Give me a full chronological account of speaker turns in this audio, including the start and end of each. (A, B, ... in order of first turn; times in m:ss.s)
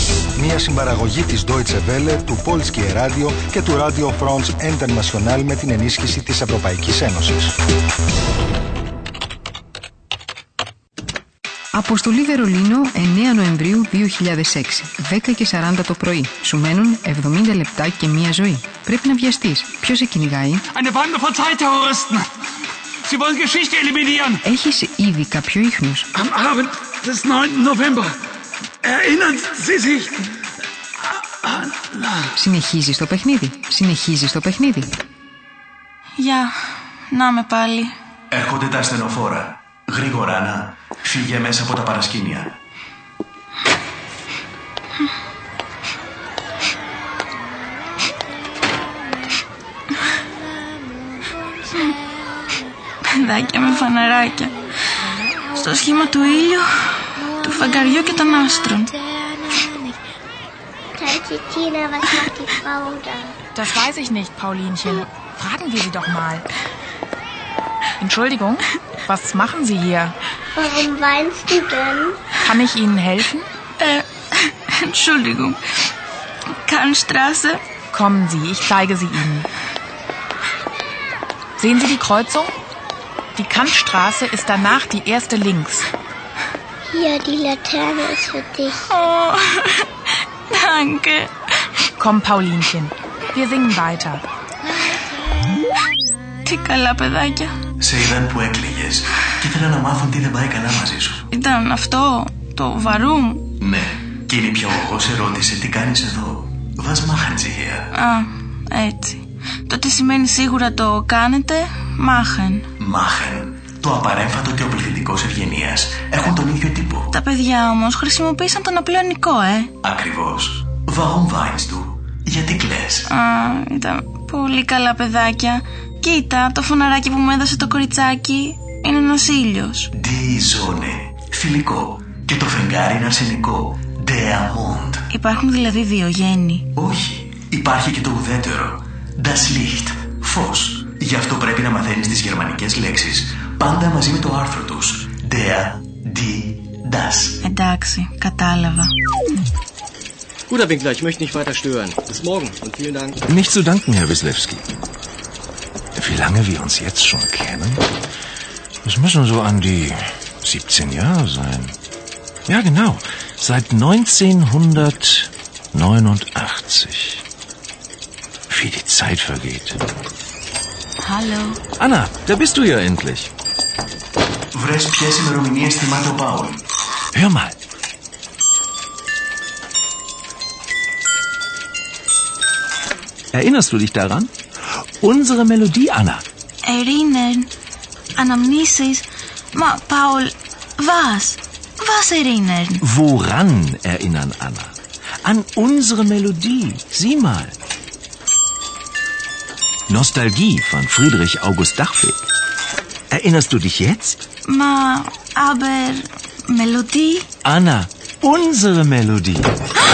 0:00.4-0:07.5 A
0:11.7-0:20.6 B
0:20.7-0:22.3 C
0:23.0-0:24.4 C
0:24.4-0:26.1 B
0:26.1-0:28.2 C
0:28.8-0:30.2 C
0:31.5-0:32.1 C
0:32.4-0:34.9 B
0:36.2-0:36.5 D
0:37.1-0:37.9 D
0:38.3-0:42.6 E
0:53.1-0:54.6 D
0:55.5-0:59.0 D
1:01.0-1:03.4 F
1:03.5-1:06.5 G
1:08.0-1:10.1 G
1:10.6-1:12.2 F
1:12.4-1:13.5 G
1:13.8-1:15.6 D
1:16.6-1:17.6 D
1:17.9-1:19.5 G
1:21.6-1:22.5 G
1:23.4-1:25.9 G
1:26.9-1:28.8 F
1:28.8-1:29.8 D
1:30.5-1:31.3 D
1:32.0-1:34.2 G
1:36.4-1:37.5 D
1:37.8-1:41.2 E
1:41.3-1:43.5 D
1:43.6-1:47.8 E
1:47.9-1:52.7 D
1:52.8-1:57.0 E
1:57.1-1:59.7 D
1:59.8-2:03.1 E
2:03.1-2:09.9 D
2:10.0-2:15.0 E
2:15.1-2:16.7 D
2:16.8-2:27.4 E
2:27.4-2:28.9 D
2:30.5-2:33.2 H
2:33.3-2:34.6 I
2:35.9-2:37.8 I
2:38.8-2:41.8 I
2:42.5-2:47.2 I
2:48.5-2:49.8 I
2:51.0-2:51.6 D
2:51.8-2:53.3 I
2:54.5-2:56.6 E
2:57.1-2:57.5 I
3:03.3-3:04.3 I
3:05.0-3:06.2 I
3:06.6-3:07.5 D
3:08.2-3:12.8 D
3:12.8-3:17.5 I
3:19.9-3:22.3 I
3:23.1-3:24.2 I
3:24.4-3:27.3 D
3:27.4-3:29.6 I